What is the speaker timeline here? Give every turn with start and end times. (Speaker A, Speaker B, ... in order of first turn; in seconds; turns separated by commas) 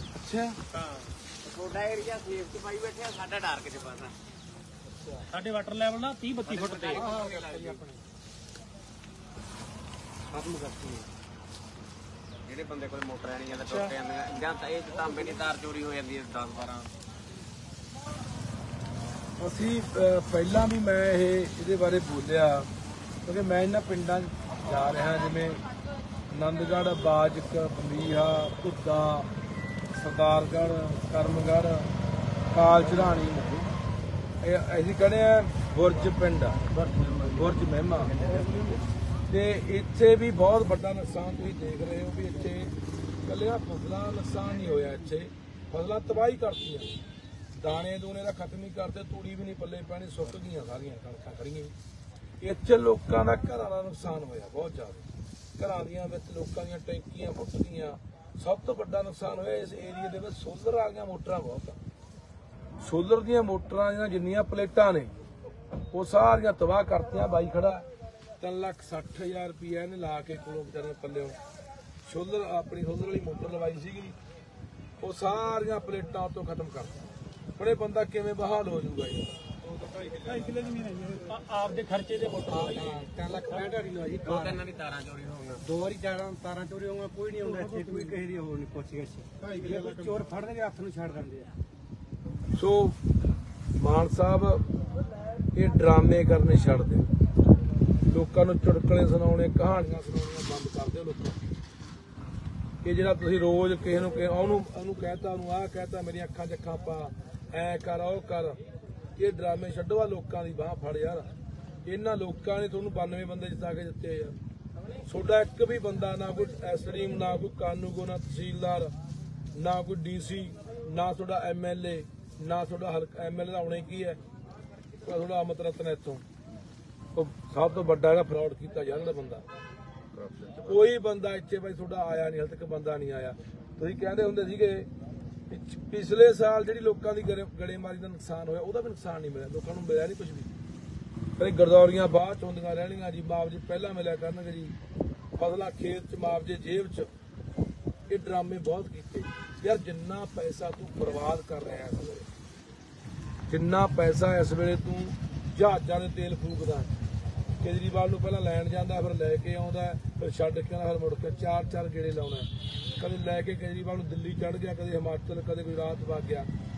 Speaker A: 0.1-0.6, Speaker B: 1.4-4.2, Speaker C: 5.3-7.1, Speaker B: 6.5-7.8, Speaker D: 7.0-7.9, Speaker D: 10.3-11.1, Speaker B: 12.5-16.9, Speaker C: 13.7-13.9, Speaker A: 19.4-22.7, Speaker A: 23.2-25.6, Speaker A: 26.3-29.3, Speaker A: 29.9-31.9, Speaker A: 32.5-33.7, Speaker A: 34.4-36.6, Speaker B: 36.9-37.3, Speaker A: 37.2-38.2, Speaker B: 38.2-38.7, Speaker A: 39.3-42.7, Speaker A: 43.2-46.9, Speaker A: 47.5-51.7, Speaker A: 52.4-55.0, Speaker A: 55.6-61.8, Speaker A: 62.8-65.1, Speaker A: 65.9-67.9, Speaker A: 68.4-71.4, Speaker A: 72.1-74.2, Speaker A: 75.0-76.9, Speaker A: 77.6-79.3, Speaker D: 79.8-81.1, Speaker C: 80.2-83.7, Speaker D: 82.5-84.6, Speaker B: 84.2-85.7, Speaker D: 85.6-91.5, Speaker A: 92.5-93.0, Speaker A: 93.8-94.6, Speaker A: 95.5-97.0, Speaker A: 98.1-101.4, Speaker A: 102.8-108.6, Speaker A: 109.2-111.3, Speaker A: 111.9-114.4, Speaker A: 115.1-118.9, Speaker A: 119.5-124.2, Speaker A: 125.0-126.2, Speaker A: 127.2-129.4, Speaker A: 130.5-134.9, Speaker A: 135.5-140.5, Speaker A: 141.4-144.8, Speaker A: 145.4-147.1, Speaker A: 148.1-152.3, Speaker A: 153.5-156.9, Speaker A: 157.6-162.5, Speaker A: 163.0-166.5